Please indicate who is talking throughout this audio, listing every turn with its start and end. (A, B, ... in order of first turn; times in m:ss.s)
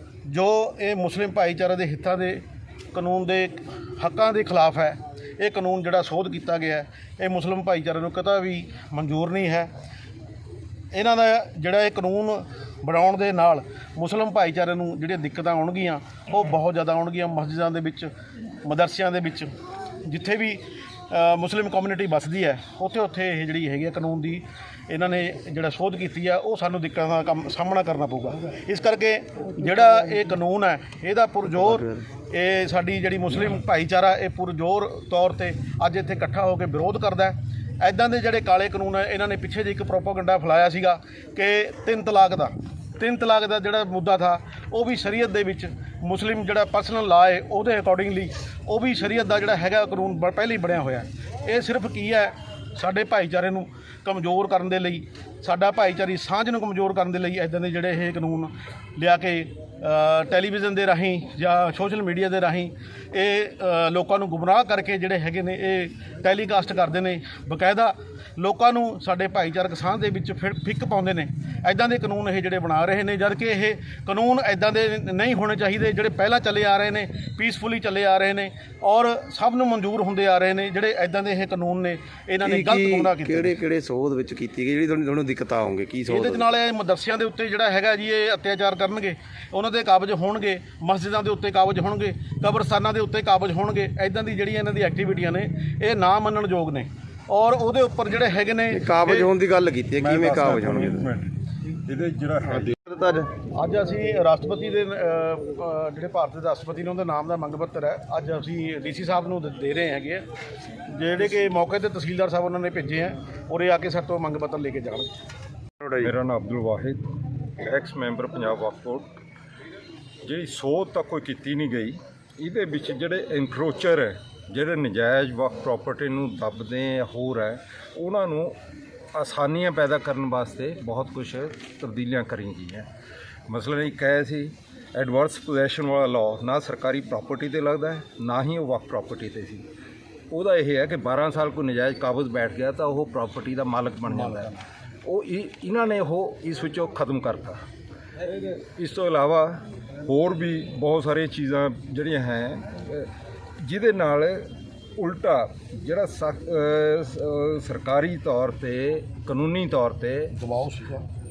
0:00.2-0:09.7 A
0:10.9-0:18.1 A
0:18.6-0:19.5 A
0:20.0-1:23.6 A
0:31.5-0:32.0 B
1:22.4-1:26.5 B
1:26.1-1:39.3 A
1:38.7-1:41.1 B
1:40.0-1:42.8 C
1:42.7-1:43.3 B
1:43.5-1:50.2 A
1:50.9-1:55.1 A
1:55.9-1:57.0 C
1:57.6-1:59.1 C
2:00.2-2:08.6 C
2:09.1-2:12.9 C
2:13.5-2:19.6 C
2:20.3-2:27.6 C
2:28.2-2:34.4 C
2:35.0-2:40.3 C
2:40.4-2:41.0 A